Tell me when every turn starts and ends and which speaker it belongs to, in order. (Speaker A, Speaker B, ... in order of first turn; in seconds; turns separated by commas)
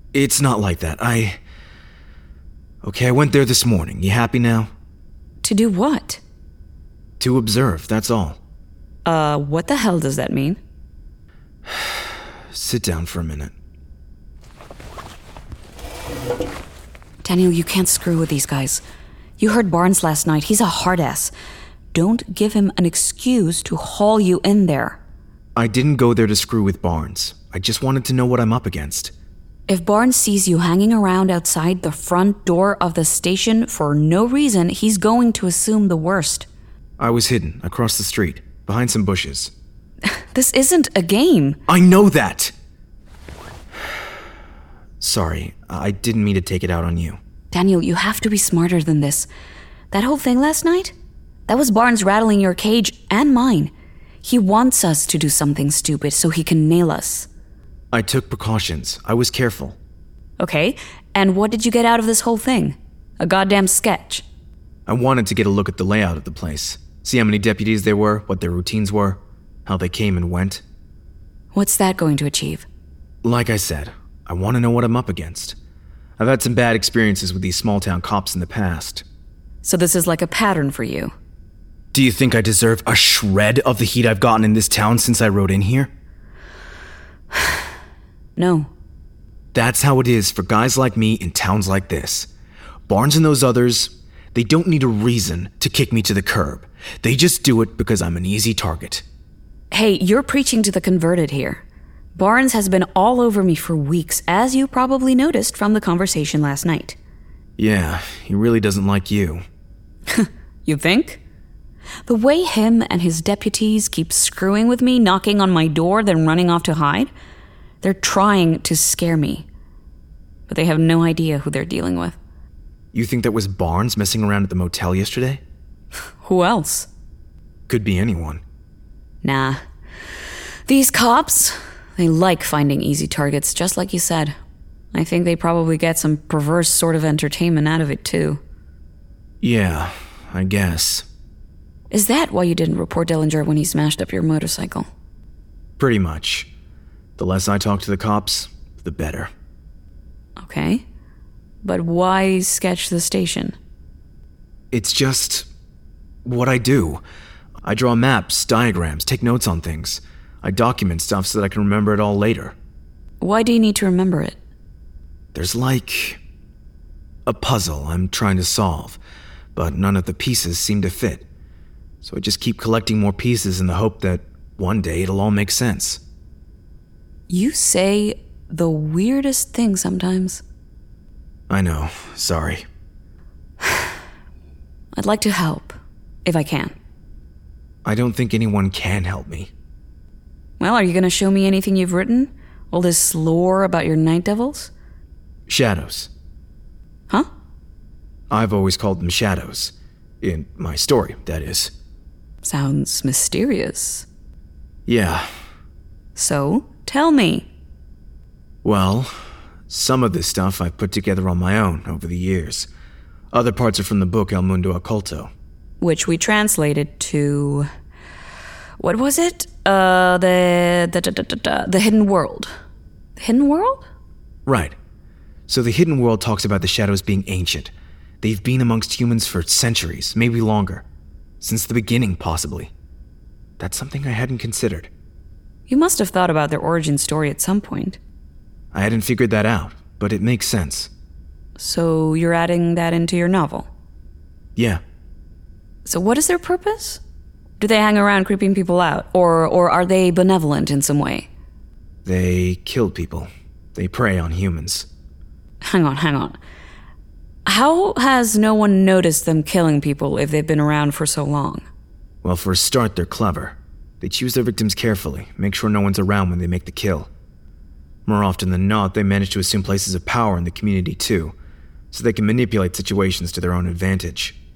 Speaker A: 0.1-1.4, Speaker A: 2.8-4.7, Speaker B: 5.4-6.2, Speaker A: 7.2-8.4, Speaker B: 9.1-10.6, Speaker A: 11.7-13.5, Speaker B: 17.2-18.8, Speaker B: 19.4-21.3, Speaker B: 21.9-25.0, Speaker A: 25.6-29.1, Speaker B: 29.7-36.5, Speaker A: 37.0-39.5, Speaker B: 40.0-41.6, Speaker A: 41.7-42.5, Speaker A: 45.0-47.2, Speaker B: 47.5-49.3, Speaker B: 49.9-50.9, Speaker B: 51.5-53.7, Speaker B: 54.2-57.3, Speaker A: 57.9-59.8, Speaker B: 60.4-64.2, Speaker A: 64.9-70.6, Speaker B: 71.5-72.7, Speaker A: 73.2-75.6, Speaker A: 76.2-79.0, Speaker B: 79.6-81.1, Speaker A: 81.9-85.9, Speaker B: 88.4-88.7, Speaker A: 89.5-92.3, Speaker A: 92.9-99.0, Speaker B: 99.7-101.6, Speaker B: 102.2-107.0, Speaker A: 107.6-109.4, Speaker B: 110.1-111.2, Speaker B: 112.1-117.1, Speaker B: 117.8-119.5, Speaker B: 120.5-122.2, Speaker A: 122.9-125.4, Speaker B: 126.2-126.9, Speaker A: 127.7-128.4, Speaker B: 129.2-129.6, Speaker B: 130.7-134.4, Speaker B: 134.9-138.4, Speaker A: 139.4-141.1, Speaker B: 141.9-144.9, Speaker A: 145.8-146.5, Speaker A: 147.2-149.3, Speaker B: 150.4-150.8, Speaker B: 151.6-153.6, Speaker A: 154.7-155.5, Speaker A: 156.2-157.0, Speaker A: 157.6-162.6, Speaker B: 163.2-164.4, Speaker A: 165.3-166.2, Speaker A: 167.3-169.0, Speaker A: 169.6-171.2, Speaker A: 172.0-176.0, Speaker B: 177.3-180.4, Speaker A: 181.5-182.7, Speaker B: 183.6-183.9, Speaker B: 184.9-186.8, Speaker A: 187.8-189.5, Speaker B: 190.6-194.7, Speaker A: 195.5-196.1, Speaker A: 198.3-201.7, Speaker B: 202.4-204.1, Speaker A: 204.9-205.3, Speaker B: 206.2-207.5, Speaker A: 208.6-209.2, Speaker A: 209.7-212.7, Speaker A: 213.3-215.3, Speaker B: 215.8-217.7, Speaker B: 218.8-222.5, Speaker B: 223.2-223.9, Speaker A: 224.5-224.8, Speaker A: 225.5-230.8, Speaker A: 231.4-232.7, Speaker A: 233.6-234.9, Speaker B: 235.7-238.0, Speaker A: 238.7-240.9, Speaker B: 241.6-243.7, Speaker A: 244.6-244.8, Speaker B: 245.8-247.0, Speaker B: 247.6-251.3, Speaker A: 252.1-254.9, Speaker B: 255.6-256.4, Speaker B: 257.5-261.6, Speaker A: 262.2-267.1, Speaker A: 268.1-271.4, Speaker A: 271.9-274.4